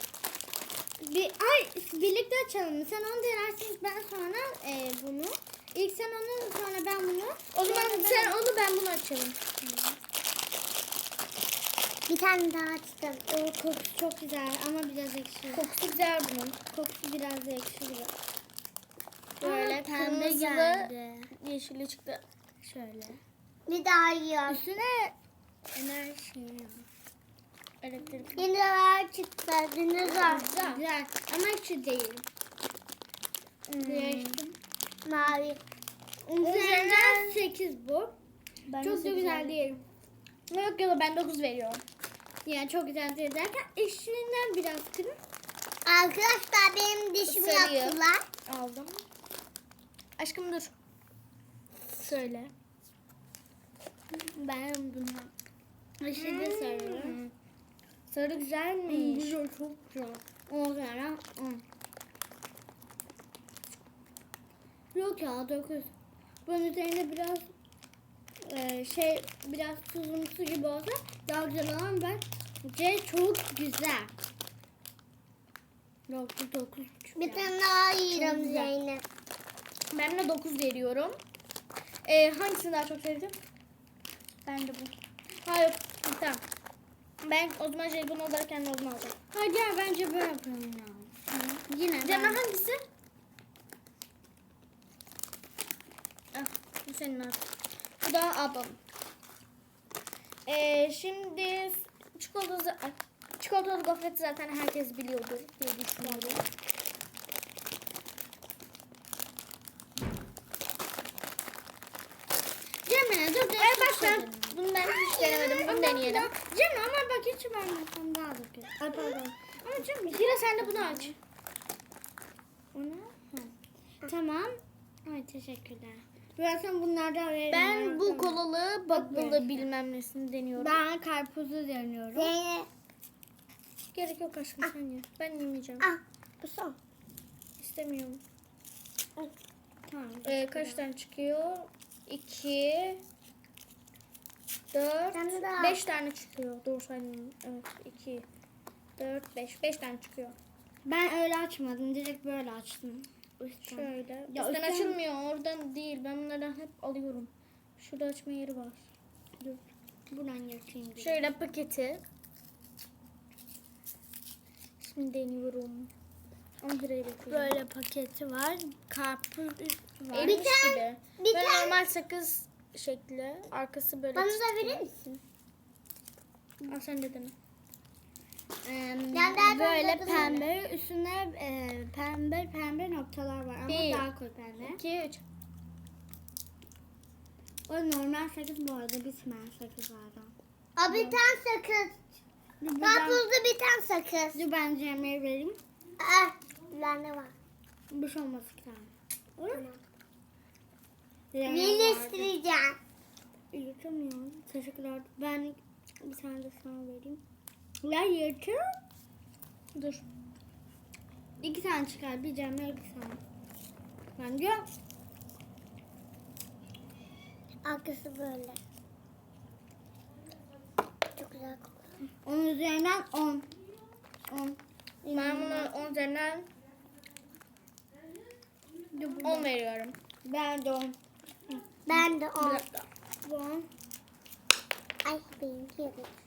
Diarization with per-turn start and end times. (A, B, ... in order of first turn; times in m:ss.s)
0:01.0-0:08.5 A
0:07.5-0:09.4 B
0:09.6-0:10.0 A
0:12.1-0:13.2 C
0:13.3-0:15.7 A
0:15.5-0:16.6 B
0:16.7-0:18.1 A
0:19.4-0:21.3 A
0:19.4-0:22.2 B
0:22.6-0:23.2 A
0:23.7-0:24.6 C
0:24.5-0:25.1 A
0:25.7-0:26.9 A
0:27.8-0:28.5 B
0:28.4-0:30.5 C
0:30.0-0:30.8 B
0:30.2-0:32.3 A
0:33.7-0:34.4 B
0:33.8-0:34.6 A
0:35.0-0:35.6 C
0:36.2-0:38.2 A
0:36.4-0:37.4 B
0:38.7-0:39.7 B
0:38.8-0:39.8 A
0:40.5-0:41.8 B
0:42.4-0:45.2 A
0:45.9-0:48.3 C
0:47.3-0:49.0 B
0:50.2-0:50.7 B
0:51.9-0:52.5 B
0:54.1-0:55.3 A
0:56.0-0:57.3 A
0:56.2-0:57.3 B
0:58.1-0:59.4 B
0:58.9-1:01.6 A
1:04.9-1:05.9 A
1:06.4-1:07.5 A
1:08.4-1:14.1 A
1:16.1-1:17.6 A
1:17.2-1:19.0 C
1:18.1-1:18.4 A
1:18.2-1:18.7 B
1:19.9-1:21.2 B
1:22.0-1:23.4 B
1:24.5-1:24.9 A
1:25.4-1:26.4 B
1:27.2-1:29.2 B
1:29.3-1:31.1 A
1:31.3-1:32.8 B
1:31.7-1:32.4 A
1:36.3-1:37.4 B
1:38.0-1:38.8 B
1:40.5-1:46.4 B
1:46.0-1:46.4 A
1:52.8-2:01.2 A
1:53.5-1:56.3 B
2:00.0-2:01.2 B
2:02.8-2:03.1 B
2:03.1-2:03.5 A
2:04.0-2:09.7 A
2:07.5-2:10.8 B
2:10.6-2:12.4 A
2:12.2-2:12.7 C
2:13.9-2:15.9 B
2:15.8-2:16.8 C
2:17.6-2:18.2 B
2:19.9-2:20.8 A
2:20.2-2:23.0 B
2:24.7-2:28.2 B
2:25.1-2:25.8 C
2:29.0-2:30.4 B
2:30.9-2:35.0 A
2:33.7-2:38.9 B
2:39.4-2:41.3 A
2:41.0-2:42.0 B
2:44.8-2:45.9 B
2:46.6-2:47.6 B
2:47.3-2:50.5 A
2:50.1-2:54.8 B
2:50.2-2:51.8 C
2:54.2-2:55.2 C
2:56.7-2:57.3 B
2:58.6-3:04.8 A
2:59.1-3:00.4 C
2:59.4-3:00.5 B
3:03.7-3:04.1 B
3:04.6-3:05.2 B
3:07.7-3:10.3 A
3:10.8-3:12.0 C
3:12.6-3:13.2 A
3:12.8-3:14.4 C
3:14.3-3:15.6 A
3:16.0-3:17.3 C
3:17.9-3:19.7 A
3:19.5-3:19.8 C
3:21.3-3:22.3 A
3:21.4-3:22.8 C
3:23.5-3:27.2 A
3:27.8-3:28.8 A
3:29.8-3:30.1 B
3:31.4-3:33.2 A
3:34.2-3:34.7 A
3:37.6-3:38.6 C
3:41.2-3:41.7 C
3:42.2-3:43.5 A
3:44.3-3:45.8 A
3:45.1-3:46.5 B
3:48.9-3:49.5 A
3:49.2-3:50.0 B
3:50.2-3:51.0 A
3:51.9-3:52.6 C
3:51.9-3:52.9 B
3:53.2-3:53.7 A
3:55.0-3:56.1 C